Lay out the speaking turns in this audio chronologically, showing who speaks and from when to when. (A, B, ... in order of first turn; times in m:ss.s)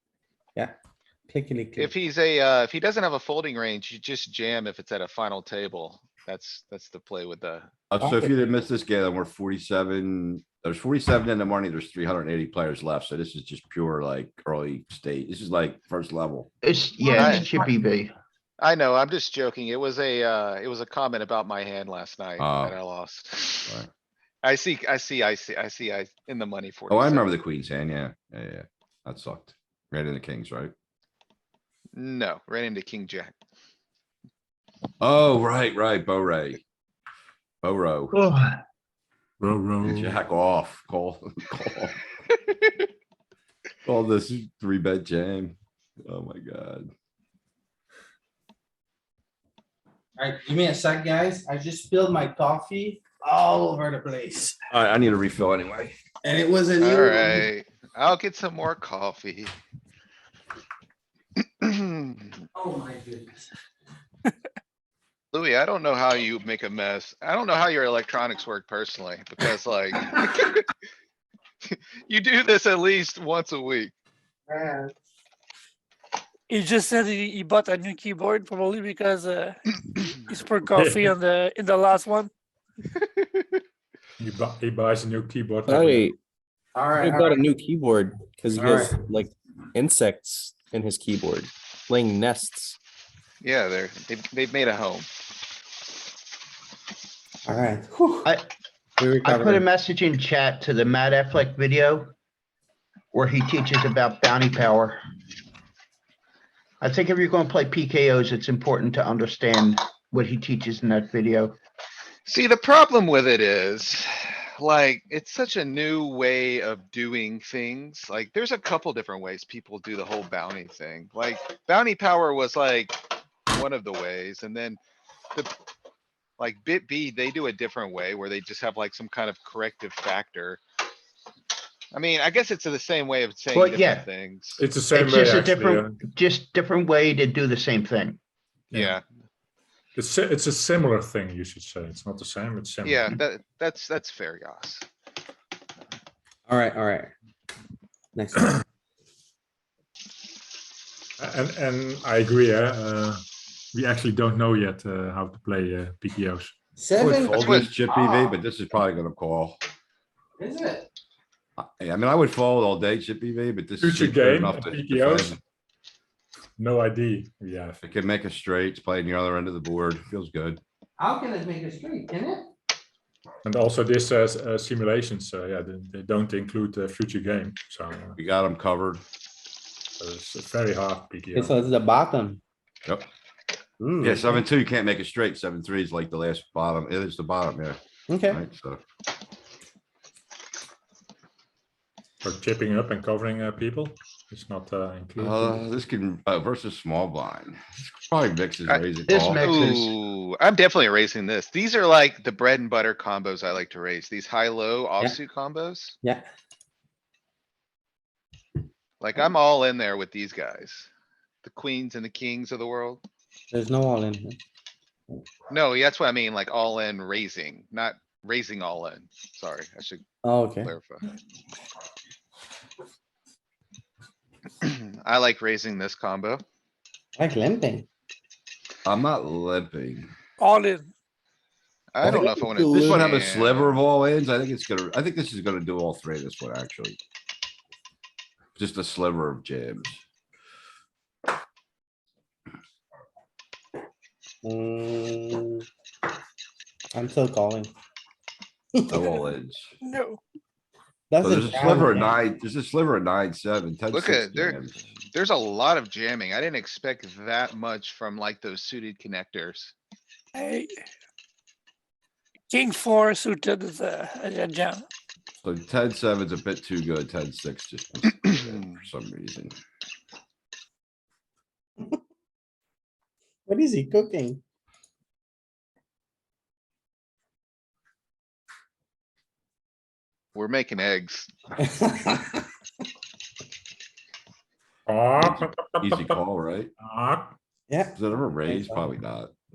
0:01.3-0:01.9 A
0:01.8-0:07.7 B
0:07.9-0:16.5 C
0:08.0-0:08.4 A
0:16.6-0:18.1 D
0:17.1-0:17.4 A
0:17.1-0:17.5 B
0:18.6-0:23.8 B
0:22.4-0:22.8 C
0:24.4-0:27.3 B
0:26.9-0:30.7 C
0:32.0-0:33.4 B
0:35.0-0:36.6 C
0:37.6-0:38.2 C
0:39.4-0:40.2 E
0:39.8-0:42.0 C
0:43.8-0:46.9 C
0:50.2-0:54.6 A
0:54.7-0:56.0 C
0:56.2-0:57.4 A
0:56.8-0:59.5 B
1:01.6-1:02.3 B
1:02.6-1:03.4 A
1:05.3-1:10.7 B
1:11.6-1:13.9 B
1:14.5-1:14.9 A
1:16.5-1:19.6 F
1:20.1-1:22.3 F
1:20.7-1:21.1 E
1:24.2-1:26.1 E
1:25.7-1:26.2 G
1:26.8-1:27.4 A
1:27.0-1:32.8 G
1:28.5-1:28.9 A
1:33.4-1:35.1 B
1:37.4-1:38.3 A
1:39.0-1:39.7 A
1:39.2-1:42.1 D
1:43.1-1:45.0 D
1:46.8-1:51.6 D
1:52.2-2:04.8 B
2:06.4-2:10.6 B
2:11.9-2:14.6 B
2:13.5-2:14.1 D
2:14.6-2:16.0 E
2:14.9-2:18.2 D
2:18.7-2:19.0 E
2:18.7-2:19.0 B
2:20.0-2:23.2 E
2:22.8-2:24.8 B
2:26.5-2:27.1 A
2:28.2-2:28.5 A
2:31.2-2:33.2 E
2:33.7-2:36.5 E
2:36.8-2:38.3 A
2:37.0-2:39.6 C
2:37.3-2:37.7 B
2:40.4-2:40.8 A
2:41.6-2:45.4 C
2:43.8-2:45.4 E
2:46.6-2:47.8 E
2:47.8-2:50.6 C
2:51.0-2:52.5 A
2:53.4-2:58.2 E
2:58.2-2:59.0 C
3:00.0-3:01.6 E
3:01.3-3:02.4 A
3:03.8-3:04.4 A
3:04.0-3:08.8 C
3:08.1-3:08.4 A
3:12.2-3:15.6 E
3:15.2-3:19.4 C
3:19.1-3:19.9 D
3:19.4-3:25.9 B
3:29.0-3:30.9 B
3:31.4-3:33.0 B
3:33.5-3:34.4 A
3:35.5-3:41.1 B
3:40.2-3:40.7 A
3:44.6-3:46.4 B
3:47.2-3:47.9 A
3:48.8-3:50.1 C
3:50.4-3:50.9 F
3:51.9-3:53.8 B
3:52.0-3:53.0 G
3:52.7-3:57.0 C
3:58.6-4:00.0 C
4:04.4-4:05.6 A
4:06.9-4:07.7 A
4:08.8-4:09.0 A
4:08.9-4:09.7 C
4:09.8-4:10.2 F
4:11.1-4:12.2 A
4:11.2-4:14.8 C
4:13.9-4:19.7 B
4:20.4-4:20.7 F
4:22.5-4:24.8 F
4:25.4-4:29.6 C
4:33.5-4:34.4 A
4:40.4-4:41.3 B
4:41.6-4:42.4 A
4:44.9-4:46.2 E
4:45.2-4:46.7 C
4:46.8-4:47.4 E
4:47.7-4:48.9 A
4:48.0-4:49.3 C